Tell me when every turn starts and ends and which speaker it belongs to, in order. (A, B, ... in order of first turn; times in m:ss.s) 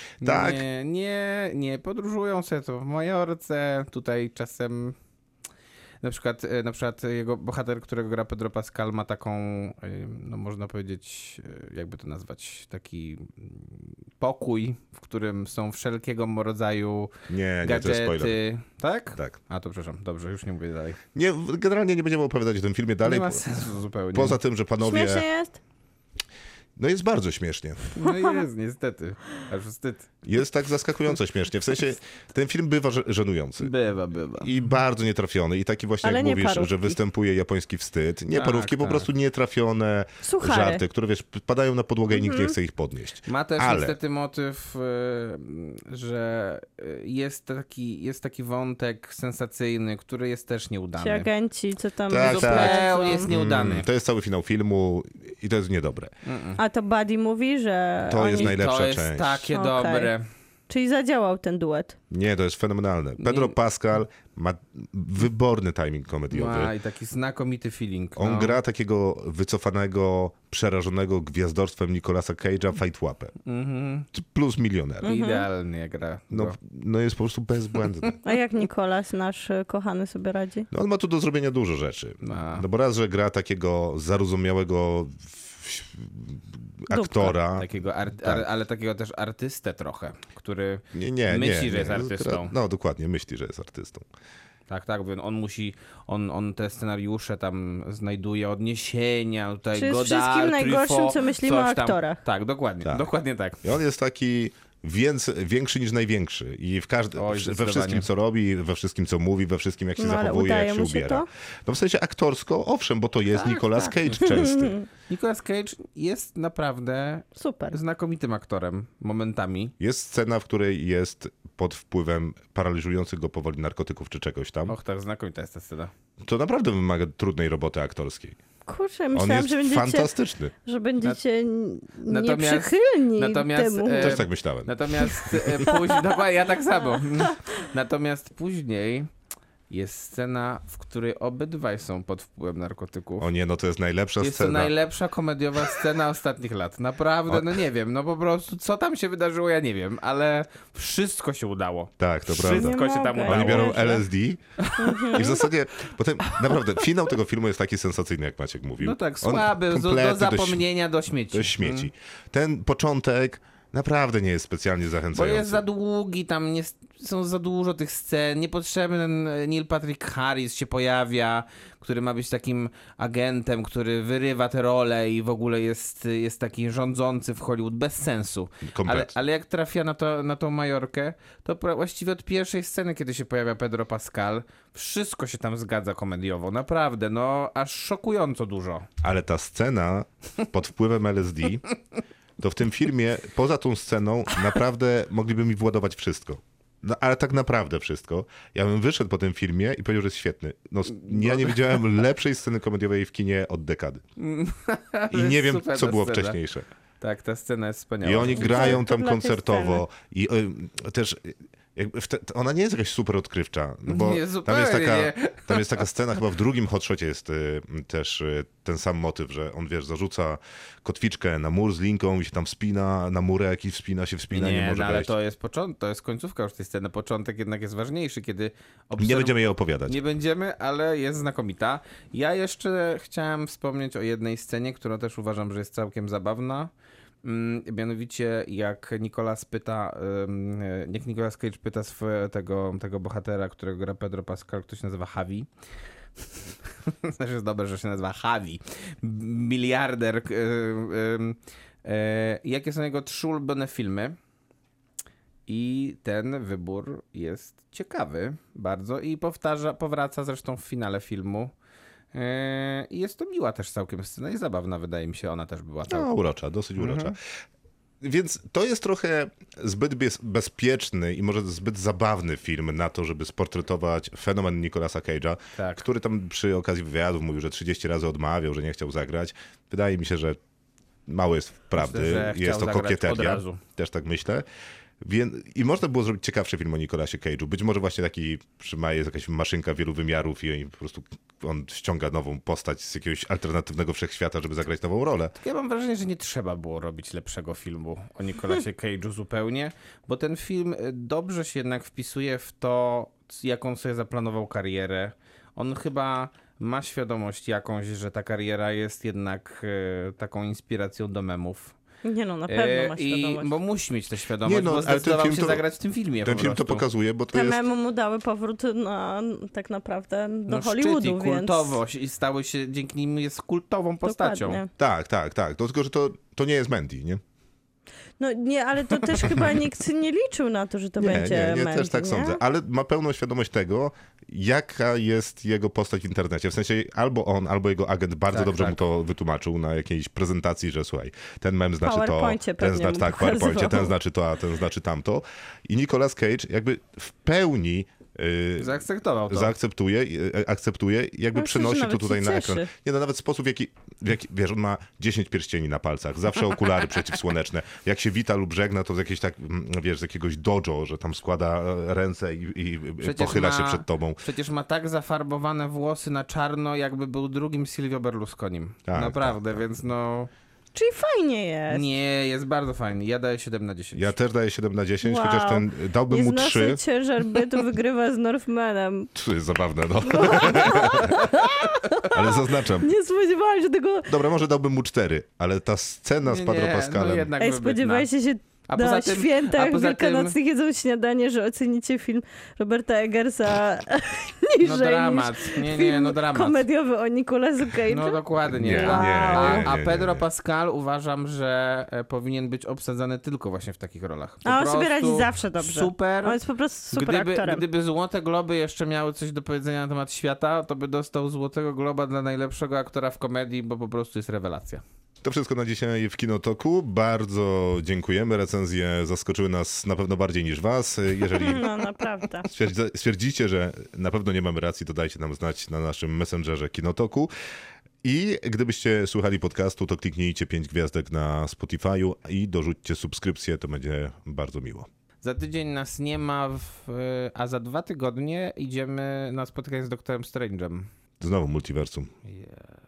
0:00.2-0:00.6 A
0:00.2-0:04.9 B
0:06.0-0:17.1 B
0:17.3-0:18.4 A
0:17.6-0:21.0 B
0:21.1-0:23.4 A
0:23.0-0:24.4 B
0:24.1-0:25.2 A
0:24.8-0:25.6 C
0:26.8-0:27.9 A
0:27.9-0:30.2 B
0:28.0-0:28.3 C
0:30.2-0:33.7 A
0:33.6-0:34.5 B
0:34.4-0:44.0 A
0:36.0-0:37.0 C
0:38.3-0:39.1 B
0:40.2-0:40.8 C
0:42.1-0:42.5 C
0:43.3-0:51.3 B
0:51.0-0:53.3 C
0:52.1-0:56.1 A
0:52.2-0:53.9 B
0:56.2-0:56.6 B
0:56.6-0:58.5 C
0:58.1-0:59.5 A
0:58.2-1:00.2 B
0:59.5-1:00.1 C
1:00.7-1:02.0 C
1:02.1-1:06.7 A
1:03.2-1:03.5 B
1:06.3-1:08.6 B
1:08.2-1:13.3 A
1:13.4-1:14.1 B
1:14.1-1:15.1 A
1:15.0-1:15.4 C
1:15.0-1:16.6 B
1:16.3-1:18.2 A
1:18.2-1:20.7 C
1:20.7-1:27.7 A
1:22.2-1:22.6 B
1:26.9-1:27.3 C
1:27.5-1:32.5 B
1:30.9-1:34.1 A
1:34.7-1:43.6 B
1:39.7-1:42.2 C
1:42.8-1:43.1 A
1:43.6-1:54.7 A
1:47.2-1:48.1 B
1:50.0-1:51.3 C
1:53.3-1:54.4 B
1:54.3-1:54.9 C
1:55.1-1:59.7 B
1:57.4-1:57.8 C
1:59.8-2:04.8 A
2:04.7-2:05.9 B
2:06.2-2:08.4 A
2:08.7-2:10.1 C
2:09.1-2:10.5 A
2:10.6-2:14.2 C
2:12.1-2:19.1 B
2:14.0-2:14.7 A
2:19.7-2:23.3 B
2:23.2-2:24.7 A
2:24.2-2:34.0 B
2:27.3-2:27.6 A
2:32.0-2:34.4 A
2:32.4-2:34.0 C
2:34.6-2:35.4 B
2:34.8-2:35.3 C
2:34.9-2:40.6 A
2:38.8-2:41.9 B
2:41.3-2:45.6 A
2:45.1-3:08.9 B
2:58.7-2:59.1 A
3:09.0-3:11.7 A
3:12.4-3:24.0 A
3:21.0-3:21.7 B
3:24.2-3:26.4 B
3:25.1-3:26.6 A
3:27.0-3:28.8 B
3:28.0-3:45.1 A
3:28.3-3:29.8 C
3:33.9-3:35.8 B
3:44.3-3:56.7 B
3:49.0-3:50.0 A
3:57.2-4:05.5 B
4:06.6-4:14.2 B
4:15.5-4:21.5 B
4:22.1-4:26.1 B
4:25.9-4:27.2 A
4:26.8-4:27.1 B
4:28.0-4:40.4 A
4:35.6-4:35.8 B
4:41.1-4:44.4 A
4:41.7-4:43.6 B
4:45.0-4:55.3 A
4:55.4-5:11.8 B
5:12.0-5:13.5 C
5:12.5-5:16.8 B
5:14.4-5:15.6 A
5:16.2-5:17.6 A
5:17.3-5:21.8 C
5:20.5-5:24.6 B
5:24.0-5:24.7 C
5:24.8-5:27.2 A
5:28.2-5:32.4 C
5:31.0-6:04.2 A
5:38.3-5:38.8 B
5:41.8-5:43.9 C
5:48.6-5:49.5 B
5:51.3-5:52.7 C
6:03.0-6:10.3 B
6:08.9-6:09.6 A
6:10.7-6:11.8 C
6:11.7-6:14.1 B
6:13.9-6:16.8 A
6:15.0-6:19.1 C
6:19.1-6:21.4 A
6:20.0-6:24.1 C
6:22.0-6:22.9 A
6:24.1-6:27.3 A
6:26.2-6:28.1 B
6:27.4-6:39.7 C
6:28.7-6:30.3 B
6:34.6-6:36.6 B
6:37.9-6:46.4 B
6:38.5-6:40.2 A
6:44.4-6:47.6 C
6:46.9-6:54.8 B
6:55.2-7:01.7 A
7:01.4-7:02.4 C
7:02.4-7:07.3 A
7:08.0-7:14.9 A
7:15.2-7:20.9 B
7:21.2-7:22.1 A
7:22.2-7:22.7 B